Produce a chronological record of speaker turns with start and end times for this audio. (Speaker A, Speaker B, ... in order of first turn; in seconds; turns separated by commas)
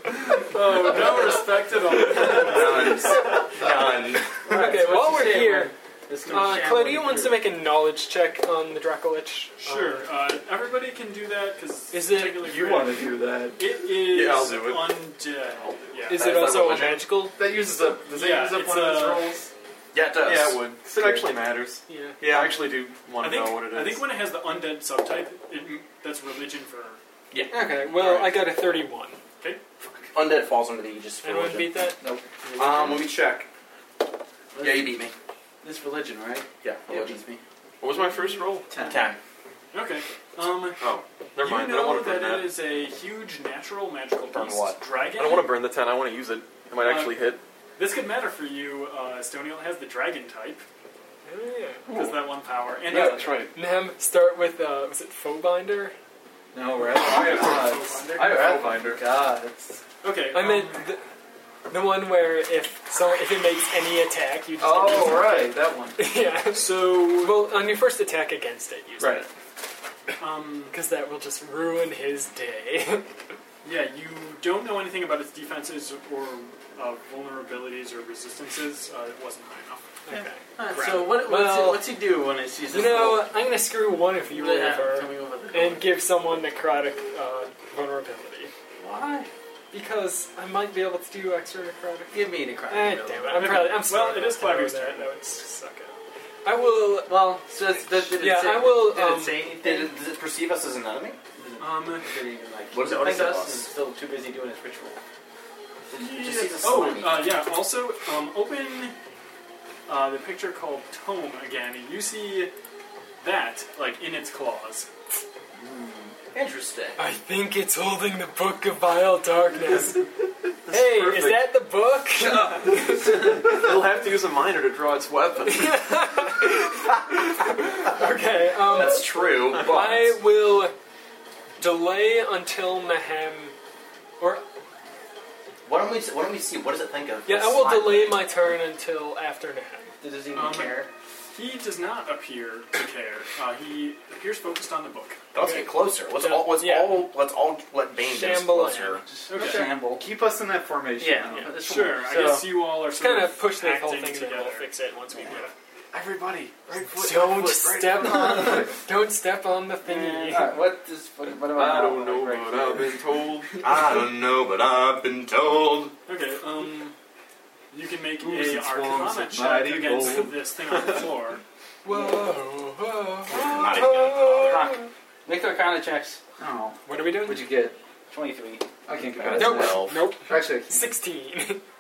Speaker A: 0.5-3.1, Speaker B: 2.1-4.5, Speaker C: 4.5-7.5, Speaker D: 4.5-5.7, Speaker D: 6.3-10.1, Speaker A: 9.6-16.5, Speaker D: 11.9-12.4, Speaker E: 12.3-13.6, Speaker F: 13.9-15.8, Speaker D: 16.1-17.4, Speaker B: 16.1-17.1, Speaker E: 17.4-19.5, Speaker A: 18.1-19.4, Speaker B: 19.9-20.6, Speaker F: 20.2-24.1, Speaker E: 20.9-21.3, Speaker D: 21.9-22.3, Speaker A: 23.2-27.0, Speaker B: 27.3-28.2, Speaker D: 27.5-29.2, Speaker B: 30.1-31.8, Speaker D: 31.2-32.0, Speaker E: 32.0-32.3, Speaker C: 32.5-33.1, Speaker B: 32.6-33.5, Speaker C: 34.5-35.0, Speaker B: 34.6-35.1, Speaker C: 35.6-37.4, Speaker B: 36.6-37.2, Speaker F: 37.8-38.7, Speaker E: 38.7-39.1, Speaker B: 38.8-39.2, Speaker A: 39.7-40.8, Speaker F: 40.8-42.6, Speaker A: 41.4-45.5, Speaker B: 44.3-44.8, Speaker F: 45.0-47.4, Speaker A: 46.8-47.2, Speaker A: 47.8-50.6, Speaker D: 51.3-51.9, Speaker F: 51.9-52.2, Speaker A: 51.9-53.4, Speaker F: 52.9-53.5, Speaker D: 53.5-55.9, Speaker E: 56.5-59.8, Speaker A: 57.1-58.5, Speaker F: 58.1-59.0, Speaker A: 60.0-60.8, Speaker D: 60.3-61.0, Speaker D: 61.7-69.3, Speaker E: 64.6-66.0, Speaker A: 66.5-67.5, Speaker E: 69.0-69.3, Speaker A: 70.2-70.8, Speaker D: 70.7-73.1, Speaker A: 73.6-79.9, Speaker D: 80.1-81.8, Speaker C: 80.6-83.3, Speaker D: 82.7-88.5, Speaker C: 84.2-86.0, Speaker C: 88.8-89.3, Speaker D: 89.7-95.9, Speaker C: 92.1-93.6, Speaker A: 93.4-95.4, Speaker D: 96.5-99.5, Speaker C: 97.1-100.0, Speaker B: 99.6-101.2, Speaker C: 101.4-105.0, Speaker A: 101.6-102.1, Speaker B: 102.7-103.7, Speaker B: 105.9-107.5, Speaker A: 105.9-108.9, Speaker A: 109.9-112.5, Speaker A: 113.2-114.9, Speaker C: 115.6-116.1, Speaker B: 116.3-117.0, Speaker D: 117.0-120.1, Speaker F: 120.7-121.6, Speaker D: 120.7-123.4, Speaker F: 122.2-125.9, Speaker D: 125.4-130.7, Speaker B: 128.7-130.1, Speaker D: 131.6-133.5, Speaker B: 135.7-138.4, Speaker D: 137.3-139.9, Speaker C: 140.0-140.9, Speaker A: 140.3-140.8, Speaker A: 141.3-145.2, Speaker B: 145.3-149.0, Speaker D: 145.4-147.1, Speaker D: 148.0-149.0, Speaker C: 149.1-150.1, Speaker A: 149.3-149.7, Speaker E: 149.4-152.1, Speaker C: 151.0-152.5, Speaker A: 151.6-154.7, Speaker D: 152.9-155.5, Speaker F: 155.9-158.2, Speaker D: 156.9-160.6, Speaker C: 158.1-158.7, Speaker C: 159.8-163.0, Speaker F: 161.4-163.6, Speaker B: 163.6-165.9, Speaker A: 166.1-166.9, Speaker A: 167.7-171.4, Speaker E: 168.2-170.3, Speaker D: 171.8-174.9, Speaker C: 171.9-172.3, Speaker B: 173.3-174.7, Speaker C: 174.5-176.2, Speaker E: 176.4-177.8, Speaker D: 176.9-177.4, Speaker C: 178.1-178.7, Speaker E: 178.9-180.9, Speaker B: 179.2-180.1, Speaker D: 179.3-181.6